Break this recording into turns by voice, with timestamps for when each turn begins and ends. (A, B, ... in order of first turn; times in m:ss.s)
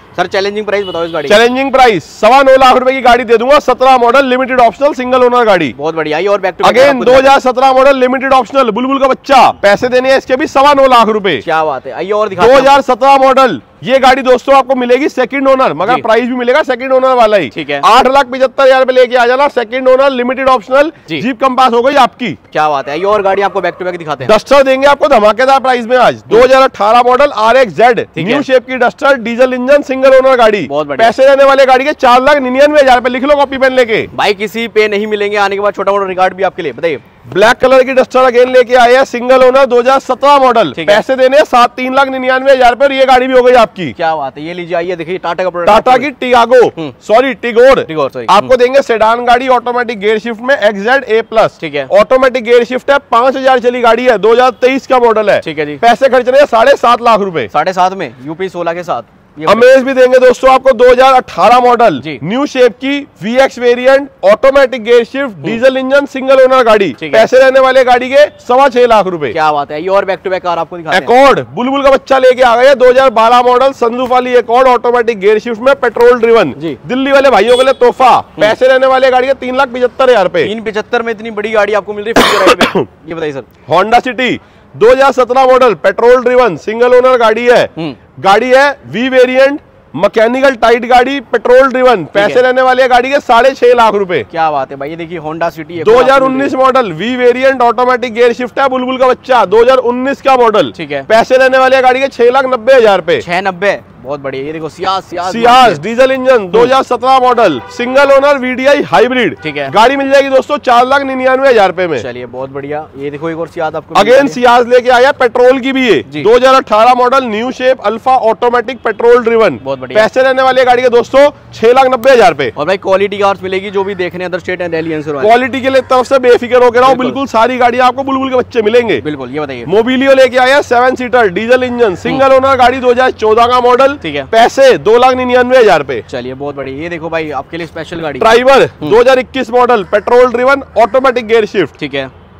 0:00.1-0:01.4 A
0:01.3-0:05.7 B
0:05.7-0:07.4 A
0:06.6-0:11.4 B
0:11.4-0:12.8 A
0:12.4-0:22.4 B
0:17.5-0:17.8 A
0:22.5-0:24.3 A
0:24.2-0:34.1 B
0:28.1-0:28.4 A
0:30.6-0:31.1 A
0:34.1-0:37.0 A
0:37.3-0:43.9 B
0:40.7-0:41.0 A
0:44.0-0:46.1 A
0:45.6-0:57.5 B
0:47.9-0:48.5 A
0:51.6-0:51.9 A
0:55.4-0:55.8 A
0:57.5-0:59.8 A
0:59.5-1:09.4 B
1:07.0-1:07.3 A
1:09.3-1:11.1 A
1:10.9-1:20.5 B
1:20.4-1:23.5 A
1:22.2-1:22.8 B
1:23.7-1:34.3 B
1:32.1-1:32.4 A
1:34.3-1:36.5 A
1:35.8-1:43.2 B
1:40.7-1:41.1 A
1:43.2-1:45.8 A
1:45.2-1:52.0 B
1:49.4-1:49.7 A
1:51.9-1:54.4 A
1:53.9-2:02.5 B
1:59.6-2:00.1 A
2:02.5-2:05.3 A
2:05.2-2:09.0 B
2:06.8-2:07.2 A
2:09.0-2:09.7 A
2:09.7-2:16.0 B
2:14.0-2:14.3 A
2:16.1-2:19.0 A
2:18.2-2:21.7 B
2:21.8-2:22.1 A